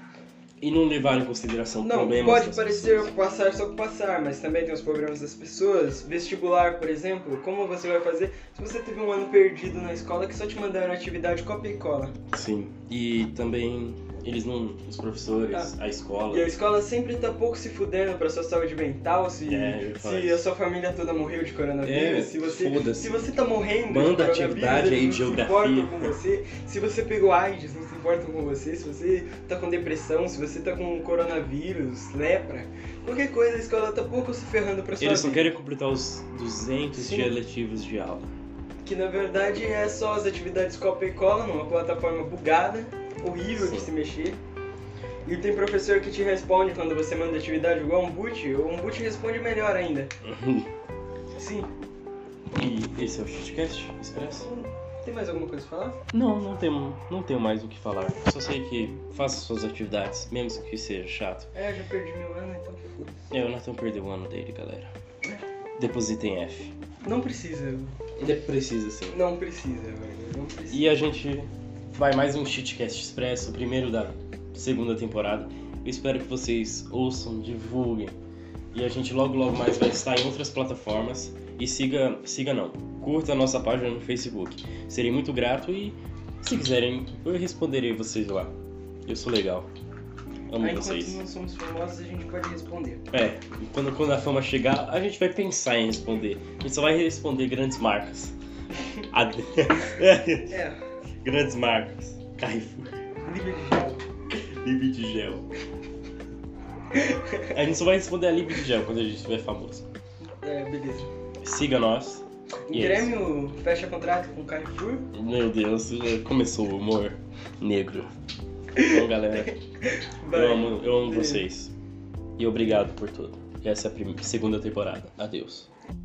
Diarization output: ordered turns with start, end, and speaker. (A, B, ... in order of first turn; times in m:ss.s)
0:00.6-0:03.1 A
0:01.8-0:12.1 B
0:12.3-0:16.5 A
0:16.3-0:35.5 B
0:19.5-0:20.4 A
0:21.8-0:23.3 A
0:23.9-0:26.2 A
0:35.0-0:38.3 A
0:37.0-0:37.3 B
0:38.8-0:44.4 B
0:43.5-0:43.9 A
0:45.2-0:50.1 B
0:50.2-0:50.7 A
0:51.4-0:51.7 B
0:52.5-0:54.5 A
0:54.4-0:56.0 B
0:56.1-1:01.5 A
1:01.5-1:03.2 B
1:03.3-1:04.9 A
1:05.8-1:06.7 A
1:07.0-1:08.0 B
1:08.2-1:09.2 A
1:09.1-1:10.8 B
1:10.7-1:18.2 A
1:18.7-1:28.5 A
1:29.1-1:29.7 A
1:30.5-1:31.2 A
1:30.6-1:33.0 B
1:33.1-1:38.4 A
1:39.1-1:40.6 A
1:40.5-1:40.8 B
1:41.2-1:43.0 A
1:43.2-1:44.0 B
1:44.3-1:45.5 A
1:46.9-1:47.6 B
1:47.5-1:49.9 A
1:50.2-1:51.1 B
1:51.4-1:53.2 A
1:52.7-1:55.1 B
1:55.1-1:58.1 A
1:58.8-2:01.5 B
1:58.8-1:59.5 A
2:00.3-2:01.7 A
2:02.4-2:05.7 A